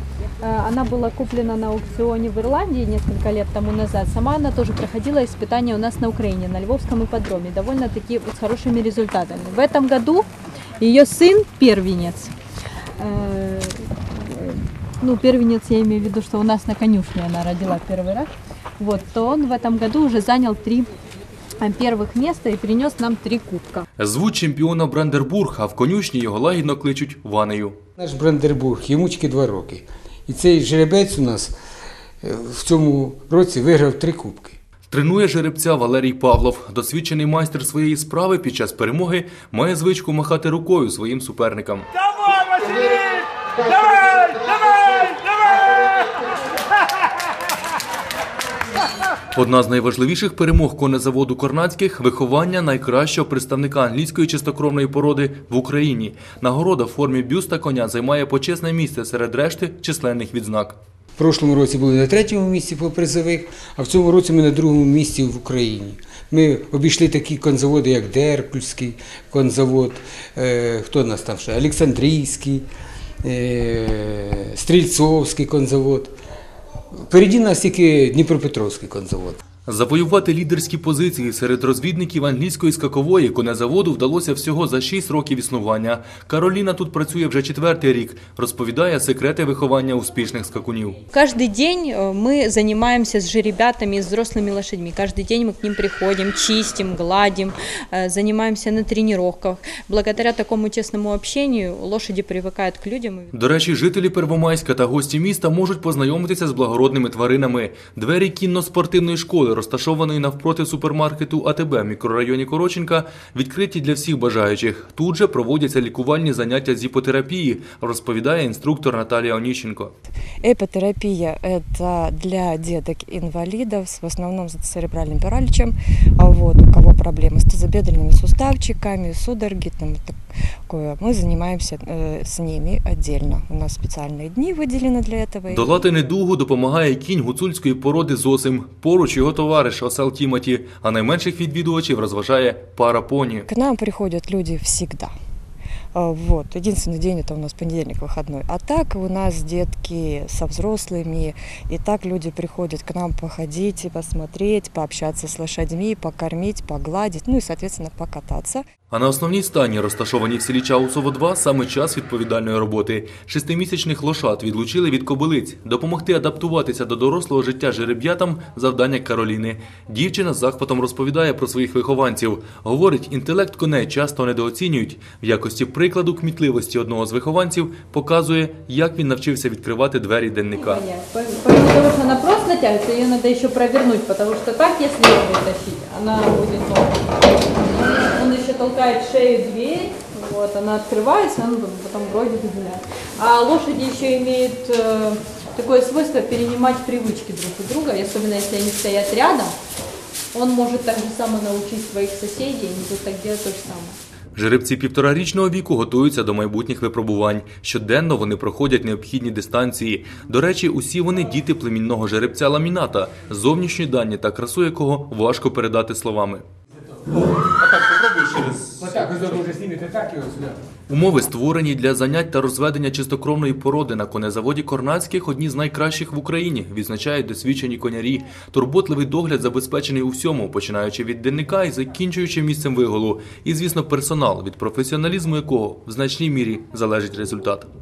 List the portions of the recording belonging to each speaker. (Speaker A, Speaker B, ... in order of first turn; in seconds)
Speaker A: 0.4-10.3, 10.8-12.3, 13.0-20.9, 21.6-23.9, 91.1-103.3, 180.6-199.6, 200.3-204.0
Speaker B: 24.0-27.8, 34.9-41.9, 49.3-60.8, 79.7-91.0, 103.3-119.9, 135.5-143.5, 158.9-180.8, 204.3-216.4, 217.7-218.9, 220.9-237.7
Speaker C: 28.0-31.5, 32.2-34.6, 61.2-72.6, 73.2-76.1, 77.1-79.4, 218.0-220.6
Speaker D: 42.6-45.1
Speaker E: 120.4-130.2, 130.7-135.8, 143.5-145.1, 145.9-158.6